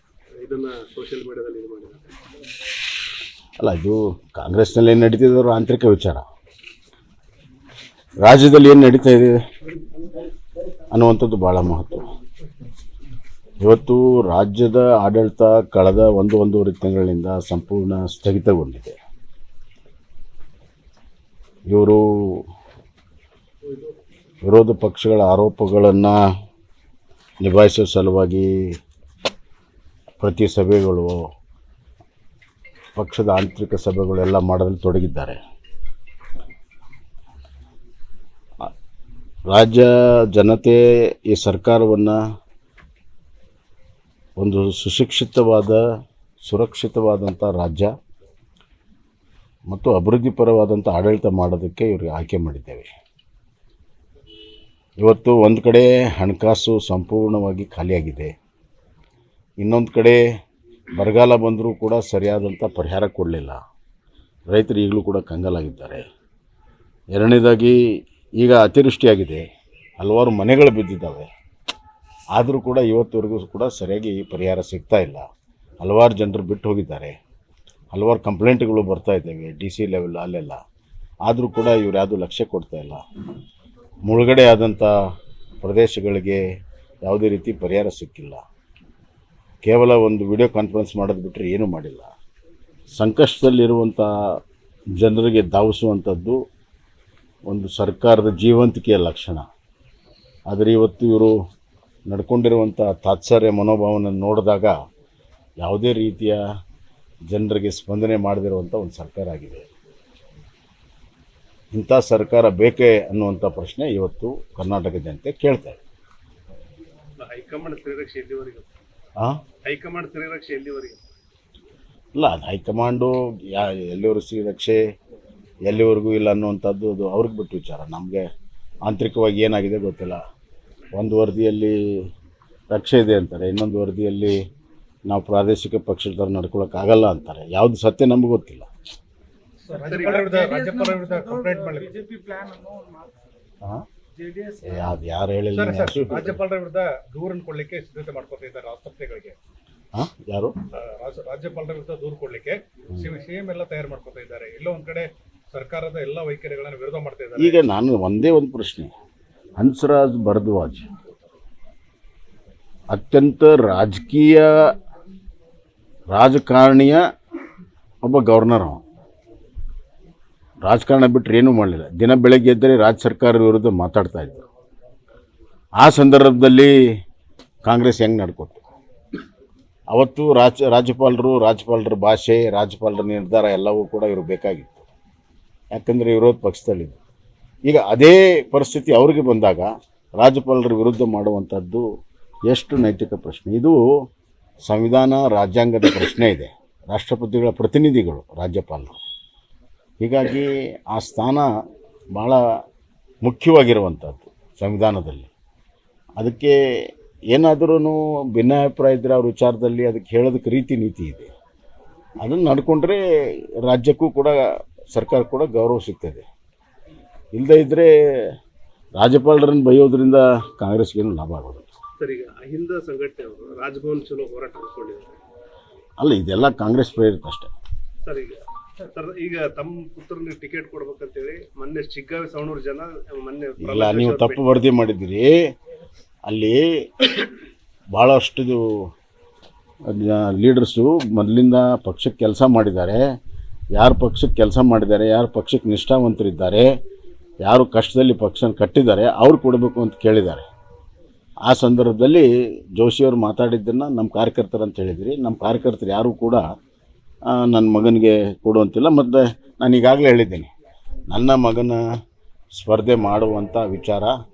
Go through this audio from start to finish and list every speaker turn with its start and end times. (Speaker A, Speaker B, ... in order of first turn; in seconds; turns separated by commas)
Speaker A: 0.4-2.0, Speaker B: 3.6-6.2, Speaker B: 8.2-9.3, Speaker B: 10.9-12.0, Speaker B: 13.6-18.9, Speaker B: 21.7-22.4, Speaker B: 24.4-26.1, Speaker B: 27.4-28.5, Speaker B: 30.2-31.2, Speaker B: 33.0-35.4, Speaker B: 39.5-42.2, Speaker B: 44.4-45.8, Speaker B: 46.4-47.9, Speaker B: 49.7-52.9, Speaker B: 55.0-58.3, Speaker B: 59.6-60.2, Speaker B: 60.9-63.6, Speaker B: 64.5-66.0, Speaker B: 67.1-67.8, Speaker B: 68.4-69.4, Speaker B: 70.0-71.3, Speaker B: 72.3-75.2, Speaker B: 75.8-77.1, Speaker B: 77.9-80.6, Speaker B: 81.2-83.0, Speaker B: 84.0-84.9, Speaker B: 85.6-86.4, Speaker B: 87.0-88.4, Speaker B: 89.6-92.1, Speaker B: 92.9-94.1, Speaker B: 94.9-96.4, Speaker B: 97.5-99.4, Speaker B: 100.5-101.3, Speaker B: 102.1-104.7, Speaker B: 105.6-106.4, Speaker B: 107.3-109.7, Speaker B: 111.7-115.8, Speaker A: 117.2-118.7, Speaker A: 119.6-121.0, Speaker B: 122.1-124.8, Speaker B: 125.6-128.2, Speaker B: 128.8-130.2, Speaker B: 130.9-131.8, Speaker B: 132.7-134.3, Speaker B: 135.1-138.7, Speaker C: 139.6-141.9, Speaker A: 139.8-140.3, Speaker D: 139.9-143.1, Speaker D: 144.2-144.9, Speaker B: 144.6-146.4, Speaker C: 145.5-149.3, Speaker B: 149.9-150.5, Speaker C: 150.7-157.6, Speaker B: 157.4-158.9, Speaker B: 159.6-160.8, Speaker B: 162.9-164.7, Speaker B: 166.1-167.0, Speaker B: 168.0-168.8, Speaker B: 170.6-174.4, Speaker B: 175.8-176.7, Speaker B: 177.6-178.6, Speaker B: 179.9-184.8, Speaker B: 185.7-187.0, Speaker B: 187.7-191.8, Speaker B: 192.5-193.8, Speaker B: 194.6-199.0, Speaker B: 200.0-201.5, Speaker B: 202.1-202.4, Speaker B: 203.2-205.3, Speaker B: 206.2-206.6, Speaker B: 207.3-211.3, Speaker B: 212.2-213.0, Speaker B: 213.6-214.4, Speaker B: 214.9-216.2, Speaker B: 217.3-217.9, Speaker B: 219.0-221.7, Speaker A: 222.0-225.1, Speaker B: 226.0-227.5, Speaker A: 228.0-234.5, Speaker B: 233.6-235.4, Speaker B: 236.2-236.7, Speaker B: 237.9-238.9, Speaker B: 239.9-243.0, Speaker B: 243.7-246.7, Speaker B: 247.4-250.4, Speaker B: 251.4-256.4, Speaker B: 257.3-260.5, Speaker B: 261.1-261.8, Speaker B: 262.5-264.1